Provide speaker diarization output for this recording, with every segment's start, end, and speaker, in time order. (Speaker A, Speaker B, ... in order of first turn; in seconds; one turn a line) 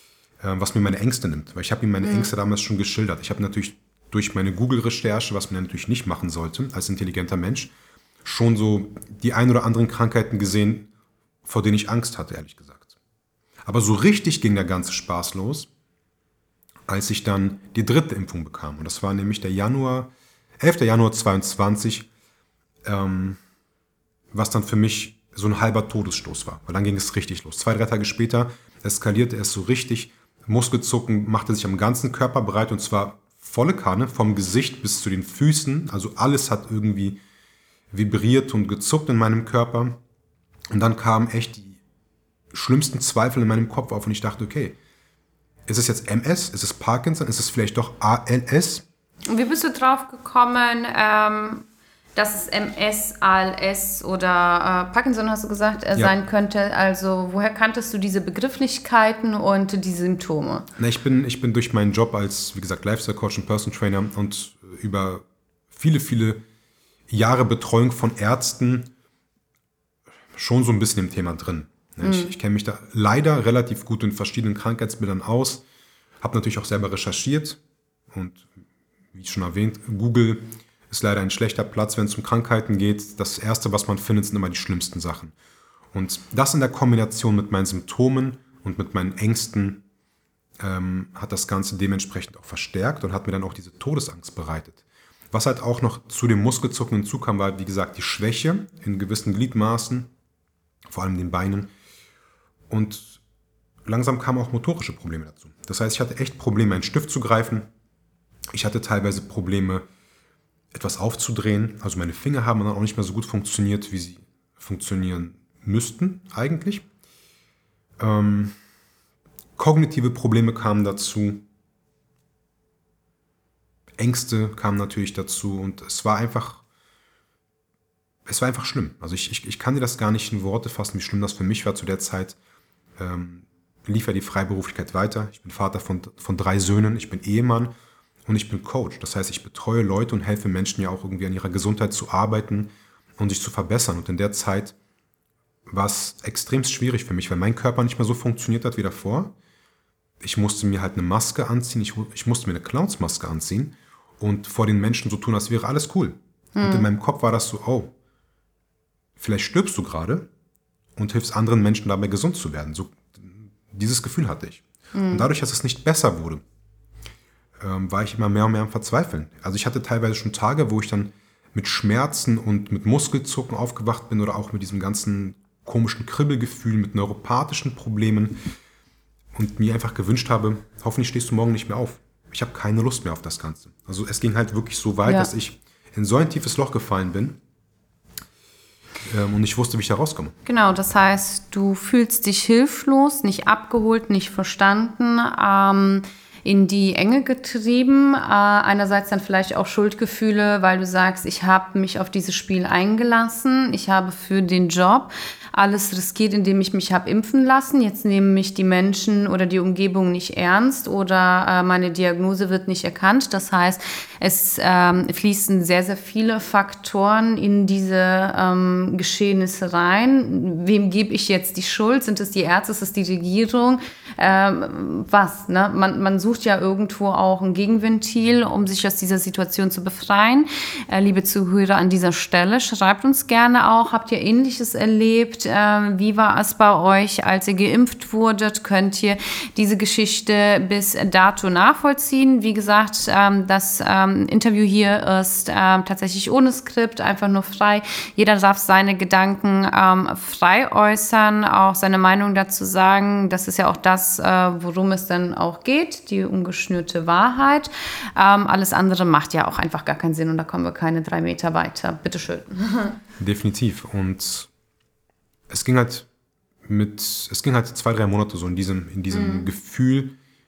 Speaker A: 0.4-7.7
Speaker B: 2.0-2.3
Speaker A: 8.2-10.9
Speaker A: 11.4-12.9
Speaker A: 13.6-15.7
Speaker A: 16.9-22.1
Speaker A: 22.8-23.4
Speaker A: 24.3-37.2
Speaker A: 37.9-40.0
Speaker A: 40.7-41.8
Speaker A: 42.5-44.8
Speaker A: 45.7-48.8
Speaker B: 49.3-51.6
Speaker B: 52.1-60.7
Speaker A: 60.8-66.4
Speaker A: 67.1-68.9
Speaker A: 70.3-75.6
Speaker B: 72.0-72.3
Speaker A: 76.2-77.6
Speaker A: 78.1-78.5
Speaker A: 79.1-85.3
Speaker A: 85.9-89.8
Speaker A: 90.6-100.1
Speaker A: 100.9-101.7
Speaker A: 102.7-103.2
Speaker A: 103.8-107.7
Speaker A: 108.5-109.8
Speaker A: 110.7-116.8
Speaker A: 118.0-118.5
Speaker A: 119.6-121.4
Speaker A: 124.0-126.6
Speaker A: 128.2-132.4
Speaker A: 133.0-137.7
Speaker A: 138.2-144.8
Speaker A: 145.7-149.3
Speaker A: 150.2-157.9
Speaker B: 156.6-156.8
Speaker A: 159.2-160.3
Speaker A: 160.9-166.4
Speaker B: 164.9-165.3
Speaker A: 167.6-178.4
Speaker A: 179.3-187.4
Speaker A: 189.0-190.3
Speaker B: 190.4-263.0
Speaker A: 263.2-264.5
Speaker A: 265.5-266.1
Speaker A: 266.6-270.2
Speaker B: 269.1-269.5